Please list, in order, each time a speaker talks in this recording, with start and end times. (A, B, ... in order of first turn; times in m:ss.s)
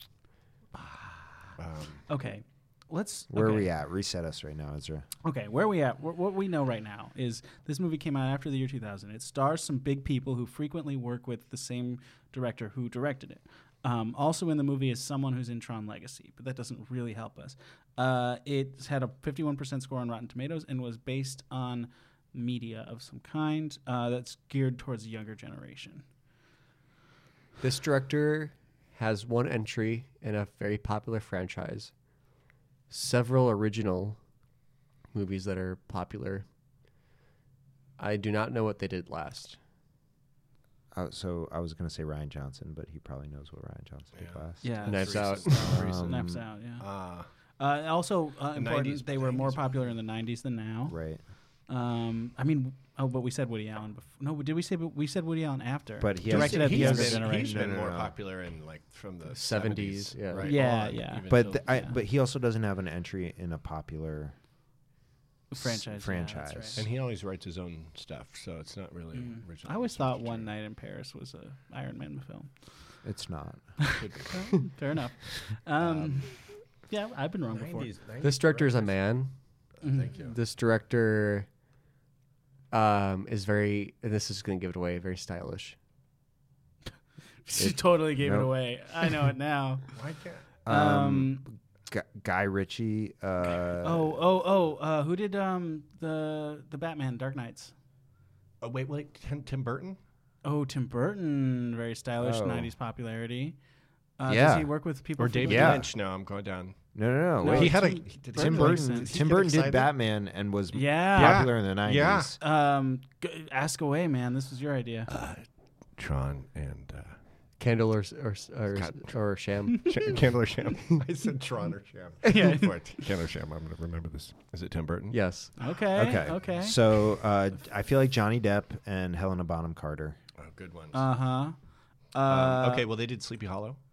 0:01.6-0:02.1 A
0:02.1-0:03.7 B
0:03.3-0:05.1 C
0:05.2-0:26.0 B
0:27.6-0:31.9 D
0:32.9-0:34.2 D
0:35.1-0:36.4 D
0:38.0-0:39.6 D
0:40.9-0:46.4 C
0:44.1-0:47.3 A
0:44.6-0:57.6 B
0:44.8-0:45.9 D
0:48.5-0:49.9 A
0:50.9-0:51.2 C
0:56.0-0:58.2 C
0:56.2-1:01.6 A
0:59.3-1:00.5 D
1:00.4-1:02.0 B
1:01.3-1:04.3 C
1:05.5-1:06.8 B
1:05.6-1:06.8 C
1:06.8-1:10.5 A
1:09.1-1:13.0 B
1:13.0-1:13.9 C
1:14.0-1:14.5 A
1:14.1-1:17.9 B
1:15.8-1:16.2 A
1:17.5-1:19.0 A
1:18.2-1:19.4 D
1:19.8-1:20.4 A
1:19.8-1:20.1 B
1:20.1-1:21.5 D
1:22.7-1:25.8 D
1:27.4-1:29.9 B
1:27.9-1:28.7 C
1:29.9-1:30.4 A
1:30.6-1:34.2 C
1:30.7-1:31.4 B
1:33.8-1:37.7 B
1:38.6-1:40.0 A
1:40.4-1:43.6 B
1:42.2-1:42.7 C
1:44.2-1:45.8 B
1:44.2-1:44.7 C
1:45.2-1:46.8 A
1:45.4-1:45.9 C
1:46.9-1:52.4 C
1:47.4-1:49.6 A
1:47.4-1:49.2 B
1:49.1-1:49.9 D
1:50.7-1:51.5 B
1:51.1-1:52.3 A
1:52.4-1:55.1 B
1:55.1-1:57.2 A
1:57.6-2:00.2 D
1:58.7-2:05.2 A
2:02.2-2:02.7 B
2:05.1-2:05.5 D
2:05.6-2:06.9 B
2:05.9-2:10.2 C
2:10.4-2:11.1 A
2:10.9-2:12.8 B
2:12.3-2:13.8 A